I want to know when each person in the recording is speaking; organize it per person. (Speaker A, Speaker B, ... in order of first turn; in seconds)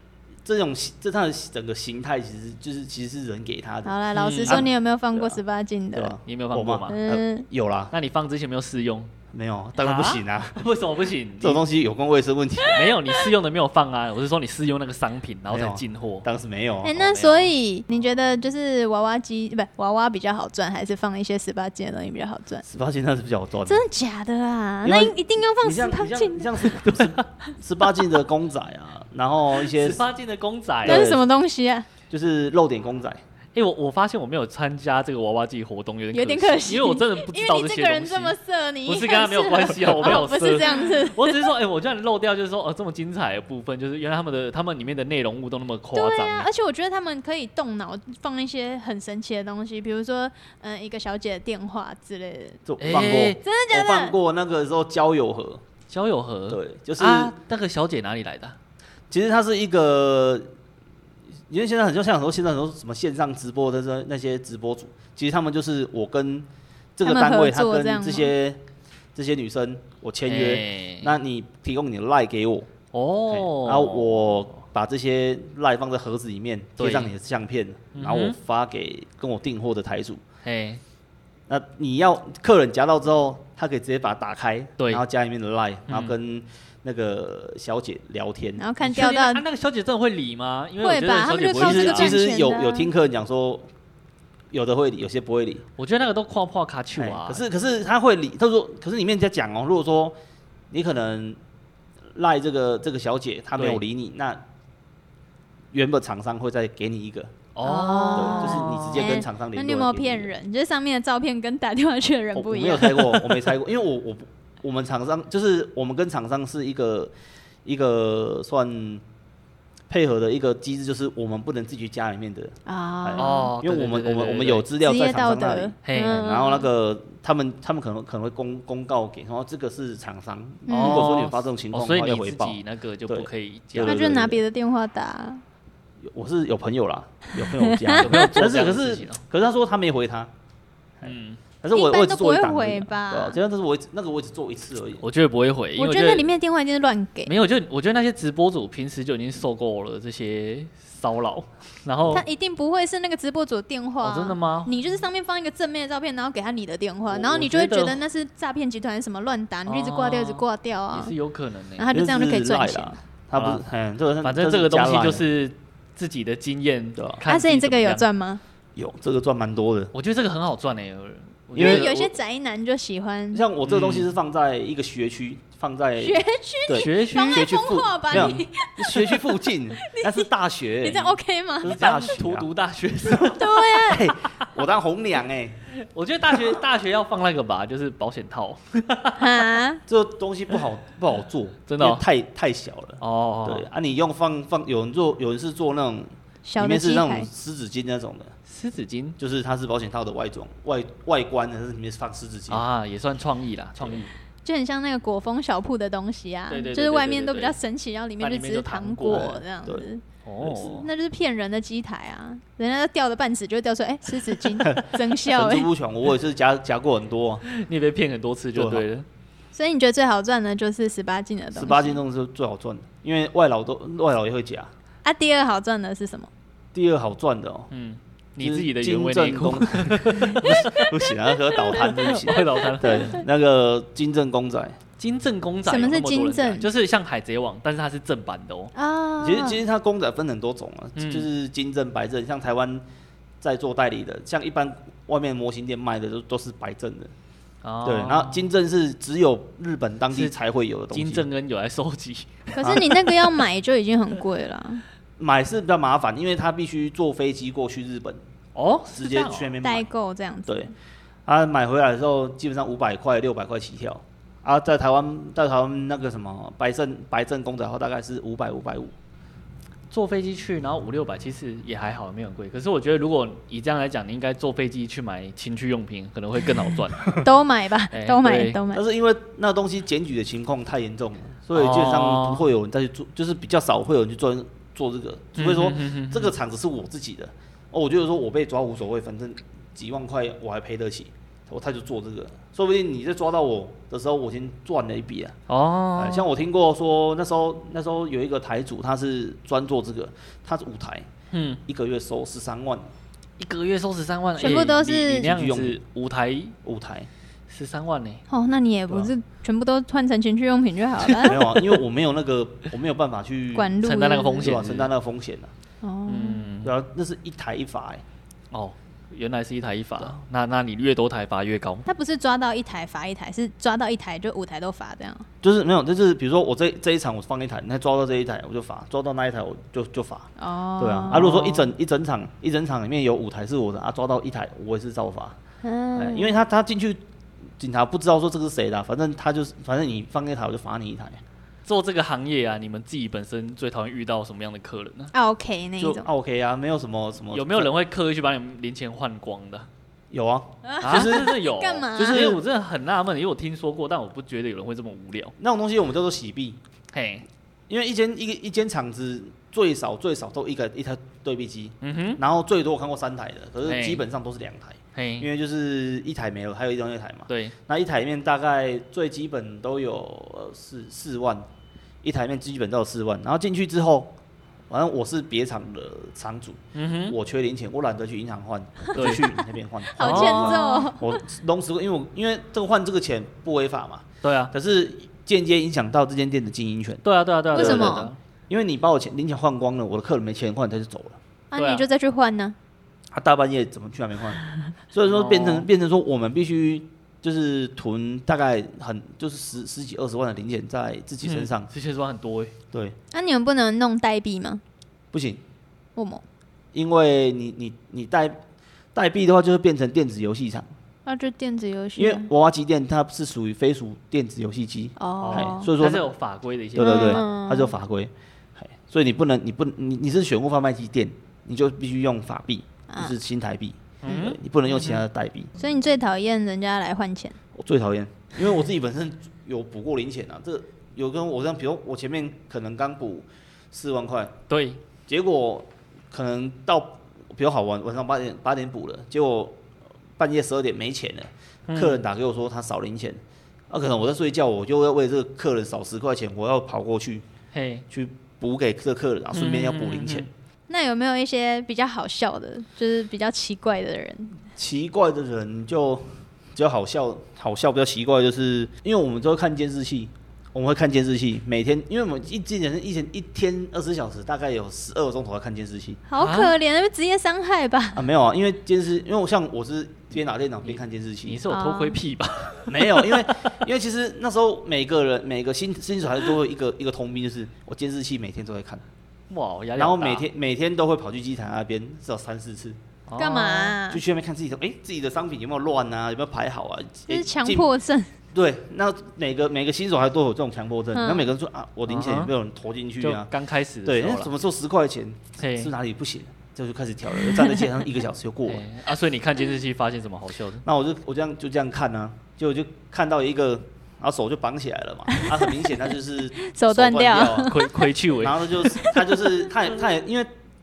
Speaker A: 0.4-5.4, 5.9-7.9, 9.3-10.7, 11.4-12.9, 15.5-17.4, 22.6-23.8, 24.8-30.0, 30.8-31.2, 32.1-33.2, 52.6-55.6, 56.5-57.3, 59.1-60.5, 61.5-68.6, 69.1-72.7, 73.3-80.2, 81.5-88.6, 91.5-93.7, 94.5-95.7, 97.0-100.2, 100.7-101.4, 102.1-104.4, 105.7-107.4, 108.1-110.3, 112.3-117.1, 117.6-119.0, 119.9-134.4, 136.0-140.3, 141.0-145.0, 161.9-165.2, 167.0-167.2, 168.8-169.9, 171.5-172.1, 173.3-182.5, 183.0-185.6, 186.3-186.6, 189.9-198.3, 199.2-202.6, 203.8-204.1, 209.1-209.8, 210.4-210.7, 214.6-217.4, 218.5-218.8, 221.5-224.7, 226.7-227.7, 228.4-234.8, 239.2-242.8, 243.4-247.1, 247.8-251.3, 252.6-253.0, 255.2-258.2, 258.9-259.9, 261.2-268.9, 278.7-295.4, 295.9-301.1, 301.6-302.9, 304.5-305.8, 306.6-307.1, 311.2-313.8, 314.4-315.5, 316.6-318.0, 325.4-335.4, 335.9-337.0, 337.6-341.2, 345.8-347.7, 350.1-351.4, 352.0-352.4, 355.4-356.6, 357.7-371.5, 372.0-374.1, 374.7-391.2, 393.1-401.7, 402.7-403.0, 405.1-405.4, 406.7-408.4, 408.9-410.7, 411.9-416.1, 416.7-425.5, 427.5-434.4, 435.1-439.6, 440.2-447.2, 447.9-450.3, 454.5-466.0, 467.9-471.4, 472.7-478.8, 479.8-482.8, 483.9-487.7, 488.3-493.3, 493.8-498.6, 500.6-507.6, 508.2-510.3
Speaker B: 3.8-6.2, 6.9-7.5, 16.8-22.6, 23.6-26.8, 30.8-31.9, 36.1-41.5, 45.9-52.6, 53.4-54.1, 67.0-68.3, 88.6-89.4, 90.8-92.9, 107.6-113.2, 122.7-123.5, 124.8-126.7, 130.7-131.1, 133.8-135.4, 137.4-138.4, 141.7-143.4, 145.8-147.3, 152.1-161.1, 161.8-163.0, 167.2-168.4, 171.6-173.4, 176.0-179.3, 179.8-180.3, 180.8-181.7, 183.2-184.1, 189.2-189.8, 196.4-197.3, 204.4-215.7, 219.5-222.0, 225.0-226.3, 230.3-230.9, 231.5-231.9, 232.8-233.2, 235.7-236.7, 238.7-239.6, 252.5-254.8, 259.6-260.7, 277.1-278.8, 304.4-305.3, 308.3-311.4, 313.5-314.5, 315.8-316.5, 321.9-325.3, 330.4-331.4, 335.6-336.4, 345.1-346.1, 350.6-352.3, 379.9-381.2, 387.5-388.1, 391.5-392.5, 403.1-404.6, 405.9-406.2, 411.1-412.3, 415.0-415.7, 416.8-417.7, 422.9-423.1, 425.6-427.4, 450.7-454.4, 466.1-468.1, 471.5-472.0, 483.2-484.0, 487.1-488.1, 490.9-491.3, 505.1-505.5, 506.4-507.7, 508.6-509.1
Speaker C: 4.1-4.6, 6.2-7.0, 7.9-9.1, 9.8-11.6, 12.7-16.2, 26.8-27.2, 29.6-31.1, 33.5-46.5, 52.8-53.4, 55.9-58.5, 70.2-71.1, 72.9-74.5, 76.8-77.1, 77.9-78.3, 80.4-80.8, 85.9-86.2, 88.8-92.2, 95.8-97.4, 103.6-103.8, 107.5-109.1, 123.2-124.7, 125.8-126.2, 130.7-134.1, 137.9-139.2, 141.0-141.4, 145.0-146.3, 147.2-152.2, 154.0-154.7, 157.1-158.0, 159.7-161.9, 163.3-163.6, 164.2-168.1, 169.9-172.0, 173.6-174.1, 176.7-177.6, 178.1-178.4, 181.6-184.5, 185.7-189.5, 191.7-192.0, 193.0-193.7, 198.5-199.2, 202.5-204.1, 206.5-207.6, 208.2-209.4, 210.2-210.9, 217.5-219.1, 227.7-230.8, 231.7-233.2, 235.0-238.7, 240.9-241.3, 247.6-248.5, 250.9-253.1, 258.5-259.5, 269.9-277.2, 277.9-278.6, 281.5-282.4, 285.4-286.3, 295.5-296.3, 301.3-301.6, 303.4-306.5, 307.5-308.2, 311.3-311.6, 313.8-314.9, 316.1-316.7, 318.5-321.9, 331.1-331.7, 341.6-345.1, 347.3-349.7, 350.8-355.3, 356.9-357.2, 361.8-362.2, 363.6-364.0, 364.9-365.3, 367.3-367.6, 376.7-377.2, 378.9-379.3, 380.0-380.8, 384.2-384.5, 387.0-388.2, 391.5-391.9, 395.0-395.7, 401.2-402.5, 415.2-417.2, 424.0-425.0, 434.5-434.8, 441.7-442.0, 447.5-447.8, 449.3-450.3, 466.2-466.6, 470.6-473.6, 479.3-480.2, 483.1-483.8, 491.9-492.3, 493.0-494.3, 495.4-495.7, 498.5-500.6, 507.5-508.7